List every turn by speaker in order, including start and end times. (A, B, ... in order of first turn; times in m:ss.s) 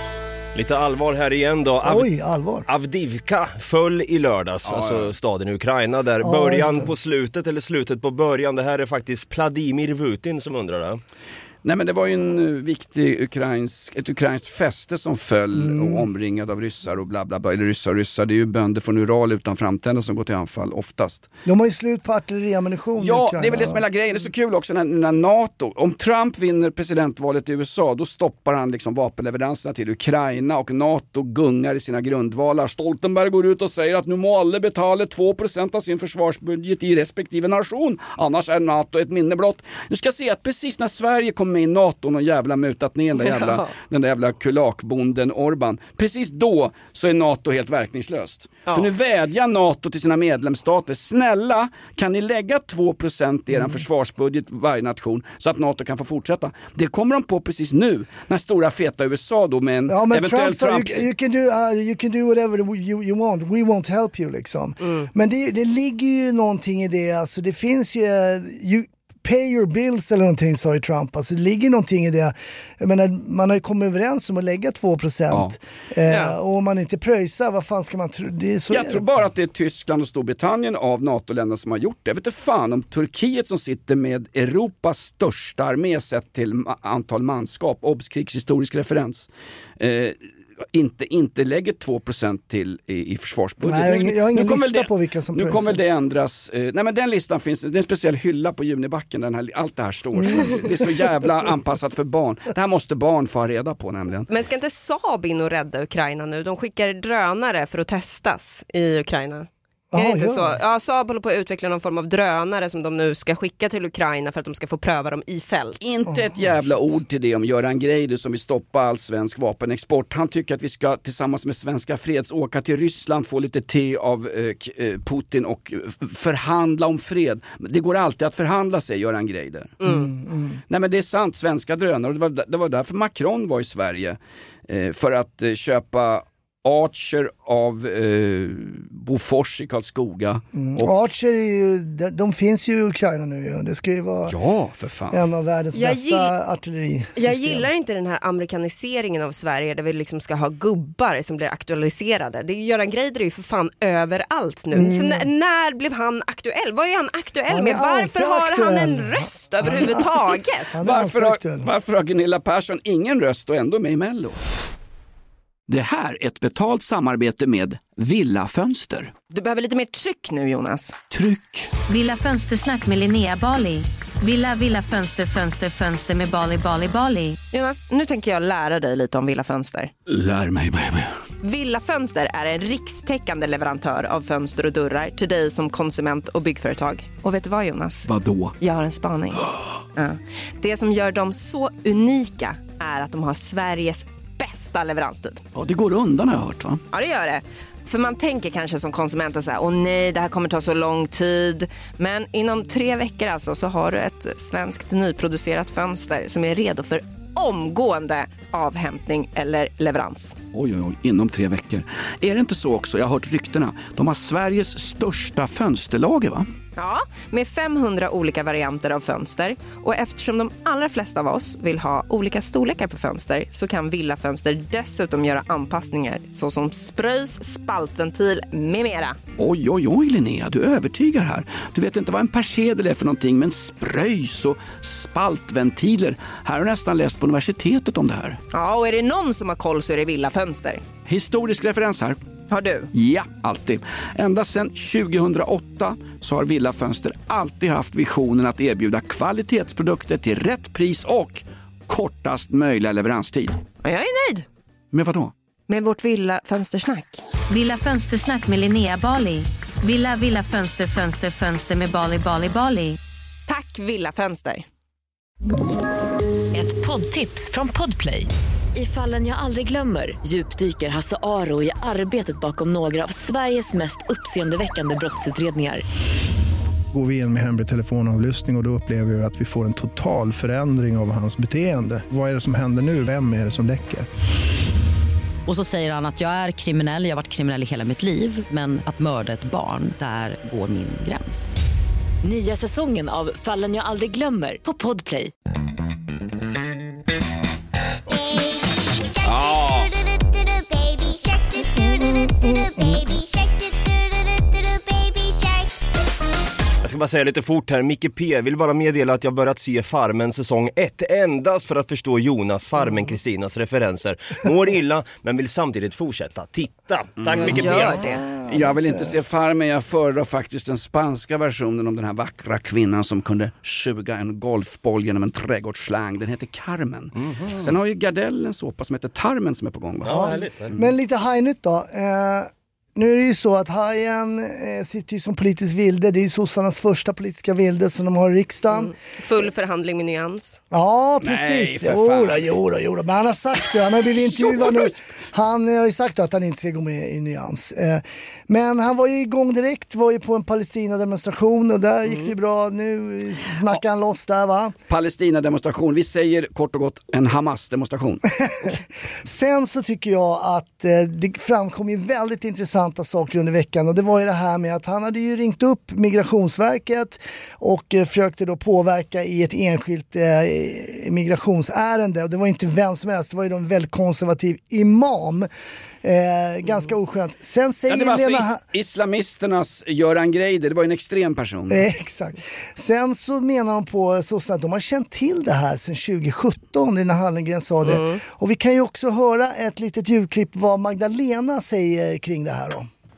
0:00.5-0:02.1 A
0:01.8-0:02.6 B
0:02.7-0:11.0 A
0:04.6-0:05.1 C
0:06.2-0:06.9 B
0:11.6-0:21.3 C
0:15.5-0:16.1 B
0:21.4-0:23.8 B
0:23.0-1:01.0 C
0:43.2-0:43.7 D
0:53.5-0:53.8 B
0:59.9-1:19.0 B
1:04.8-1:05.1 D
1:15.3-1:15.6 C
1:16.0-1:16.4 D
1:18.7-1:30.2 C
1:30.7-1:44.3 C
1:33.6-1:35.8 B
1:40.2-1:40.7 B
1:44.3-1:55.8 D
1:49.9-1:50.5 B
1:55.8-2:09.8 C
1:56.1-1:56.4 B
2:09.8-2:10.6 B
2:10.7-2:21.0 C
2:20.6-2:24.4 B
2:24.3-2:25.2 C
2:25.1-2:27.6 B
2:25.7-2:26.3 D
2:27.2-2:40.7 D
2:34.7-2:35.3 B
2:37.5-2:41.7 B
2:40.8-2:44.4 C
2:45.7-2:49.1 C
2:49.3-2:51.0 D
2:51.1-2:51.7 C
2:51.9-2:57.4 E
2:57.5-2:59.9 D
3:00.1-3:01.2 C
3:01.4-3:15.4 D
3:08.1-3:08.5 C
3:15.5-3:16.8 C
3:16.9-3:30.4 D
3:30.5-3:36.5 C
3:36.8-3:49.2 D
3:49.4-3:58.4 C
3:58.5-4:00.8 D
4:01.0-4:02.2 C
4:02.5-4:02.9 D
4:02.9-4:13.6 C
4:13.8-4:14.5 D
4:14.9-4:15.3 C
4:15.7-4:17.2 D
4:17.5-4:23.0 E
4:23.5-4:24.7 D
4:26.5-4:35.8 F
4:36.9-4:44.1 G
4:45.4-4:51.6 H
4:52.2-4:55.3 F
4:59.2-5:00.0 C
5:01.6-5:03.2 B
5:06.8-5:18.0 A
5:17.2-5:17.9 C
5:17.3-5:18.2 D
5:17.6-5:19.2 B
5:18.4-5:30.8 C
5:27.2-5:27.7 A
5:30.0-5:30.7 A
5:30.1-5:38.9 B
5:38.7-5:40.6 D
5:40.7-5:54.7 B
5:41.2-5:42.5 C
5:54.9-5:58.3 C
5:58.4-6:15.5 B
6:16.0-6:18.6 B
6:17.9-6:21.8 C
6:21.7-6:32.9 B
6:27.8-6:28.2 D